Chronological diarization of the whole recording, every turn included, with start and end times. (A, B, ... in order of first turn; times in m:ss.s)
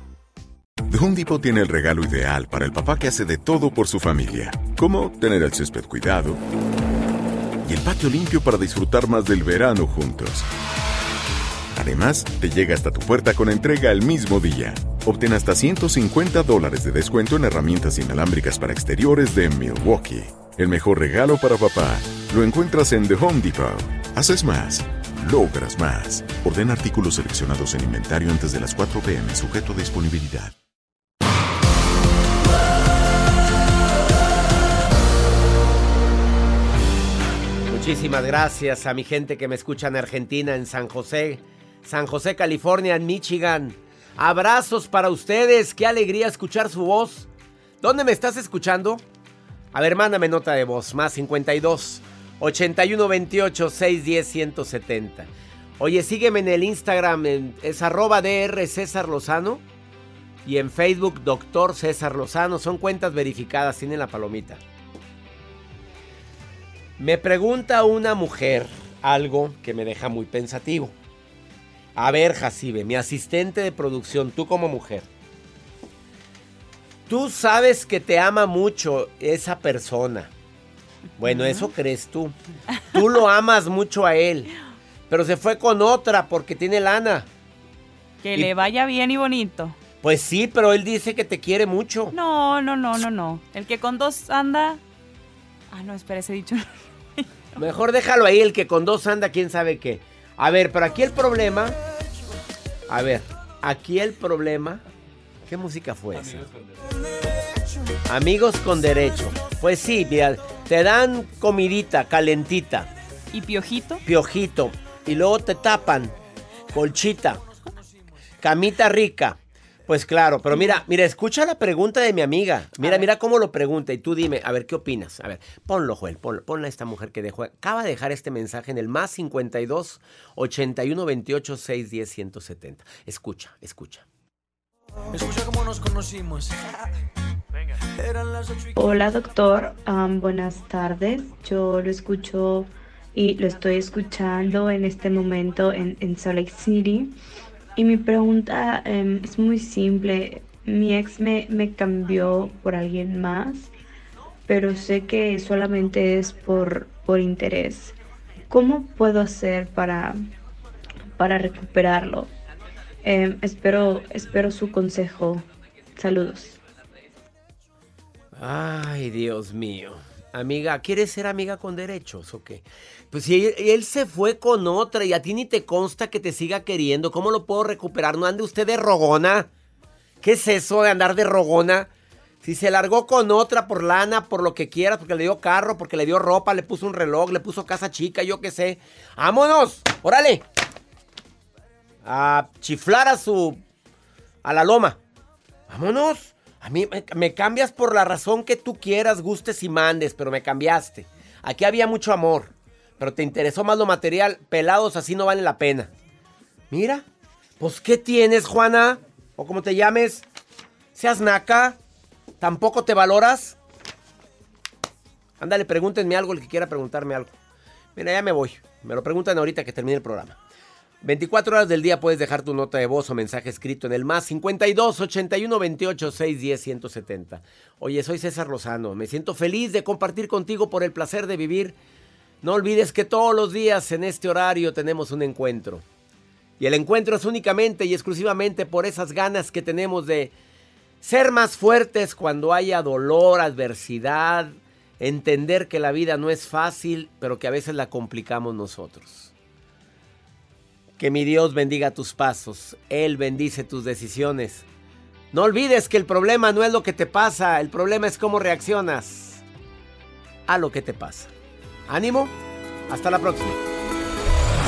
0:00.9-0:06.4 A
0:07.6-0:10.5 A
0:11.7-0:30.5 A
0:37.7-0:47.3 B
0:47.8-0:49.0 B
0:49.7-0:59.6 B
1:00.4-1:04.6 B
1:07.0-1:10.9 B
1:12.0-1:15.1 B
1:17.1-1:20.3 B
1:21.2-1:22.3 B
1:21.3-1:21.7 C
1:22.9-1:24.5 B
1:25.1-1:27.3 B
1:28.2-1:29.8 C
1:28.4-1:28.6 B
1:30.0-1:32.2 B
1:32.1-1:34.8 C
1:35.7-1:37.2 C
1:37.6-1:41.8 B
1:42.9-1:44.8 B
1:45.4-1:46.5 B
1:48.1-1:52.9 B
1:53.3-1:54.0 C
1:54.0-1:56.2 B
1:56.7-1:57.4 B
1:58.4-2:14.0 B
2:15.1-2:16.6 D
2:18.0-2:18.7 D
2:18.8-2:27.2 E
2:27.8-2:33.7 E
2:34.5-2:38.0 E
2:38.5-2:40.3 E
2:41.2-2:42.3 E
2:43.0-2:45.4 E
2:46.0-2:46.6 E
2:48.4-2:59.5 B
3:00.2-3:01.9 B
3:02.4-3:10.4 B
3:12.0-3:13.6 B
3:14.4-3:15.0 B
3:15.7-3:25.9 B
3:26.7-3:27.0 B
3:27.6-3:30.2 B
3:31.0-3:31.8 B
3:32.4-3:33.6 B
3:35.4-3:37.3 B
3:38.0-3:40.4 B
3:41.0-3:51.8 B
3:52.4-3:55.8 B
3:56.6-4:00.3 B
4:01.0-4:09.3 B
4:11.0-4:14.6 B
4:15.3-4:19.4 B
4:20.5-4:21.3 B
4:21.9-4:22.4 B
4:22.9-4:23.6 B